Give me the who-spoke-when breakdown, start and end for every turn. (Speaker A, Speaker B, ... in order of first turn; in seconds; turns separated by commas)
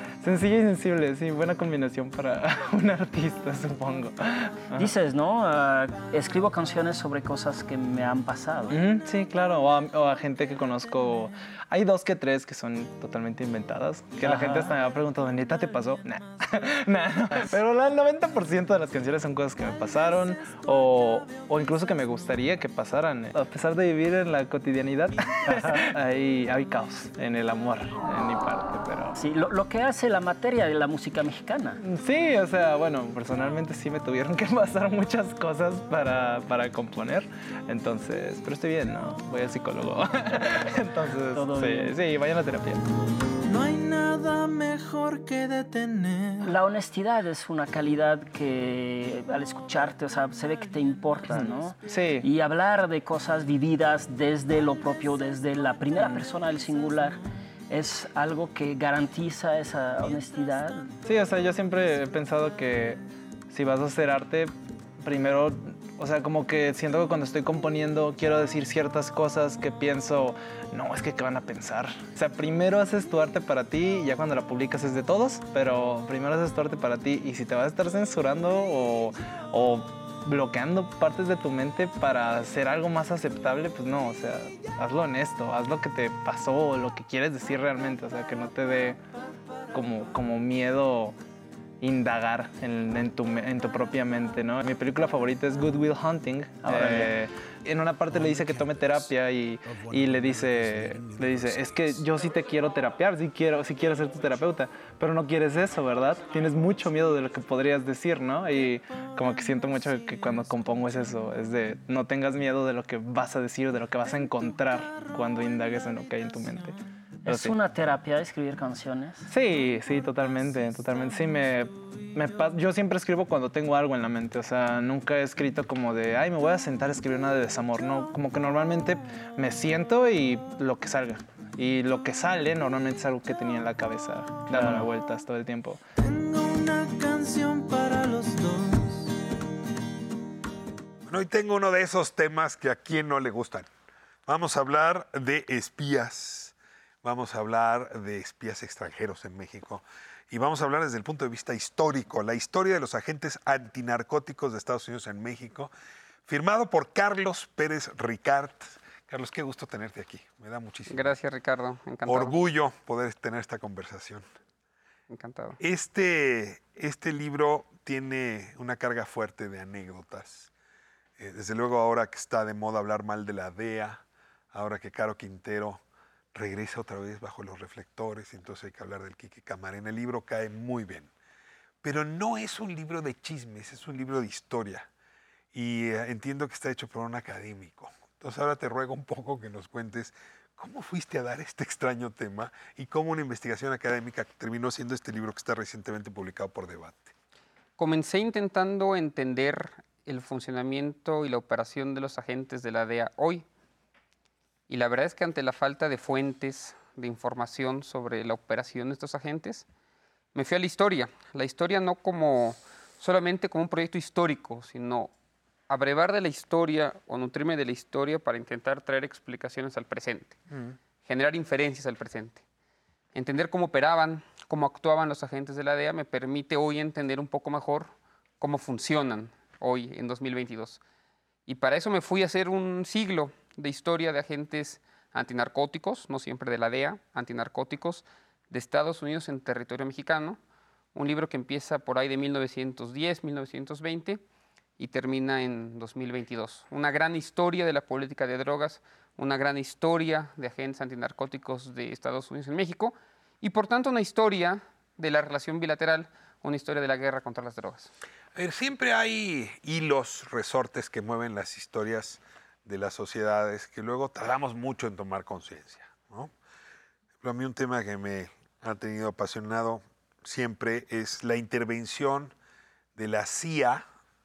Speaker A: 0.2-4.9, Speaker B: 4.8-8.8, Speaker A: 8.7-29.2, Speaker B: 14.2-14.8, Speaker B: 25.4-25.8, Speaker B: 29.2-31.8, Speaker A: 31.8-42.8, Speaker B: 41.3-42.0, Speaker C: 43.5-46.5, Speaker B: 46.4-61.0, Speaker A: 51.3-52.2, Speaker A: 61.0-63.0, Speaker A: 63.5-89.0, Speaker A: 89.7-91.2, Speaker A: 91.8-117.5, Speaker B: 96.6-97.2, Speaker D: 98.1-99.1, Speaker D: 99.6-102.0, Speaker B: 117.2-119.2, Speaker A: 119.3-135.8, Speaker B: 134.5-134.9, Speaker C: 136.0-139.1, Speaker D: 141.0-143.7, Speaker D: 144.2-155.7, Speaker D: 156.2-161.2, Speaker E: 160.9-162.4, Speaker D: 162.1-164.2, Speaker E: 165.1-165.6, Speaker D: 165.6-170.5, Speaker D: 171.2-175.8, Speaker D: 176.3-181.1, Speaker D: 181.8-184.9, Speaker D: 185.5-197.1, Speaker E: 197.8-203.4, Speaker E: 204.7-209.7, Speaker E: 210.3-215.1, Speaker E: 215.7-220.4, Speaker E: 221.0-222.4, Speaker E: 223.1-230.8, Speaker E: 231.4-240.4, Speaker E: 240.9-244.2, Speaker E: 244.8-257.9, Speaker D: 258.3-266.3, Speaker D: 267.2-272.3, Speaker D: 272.9-273.9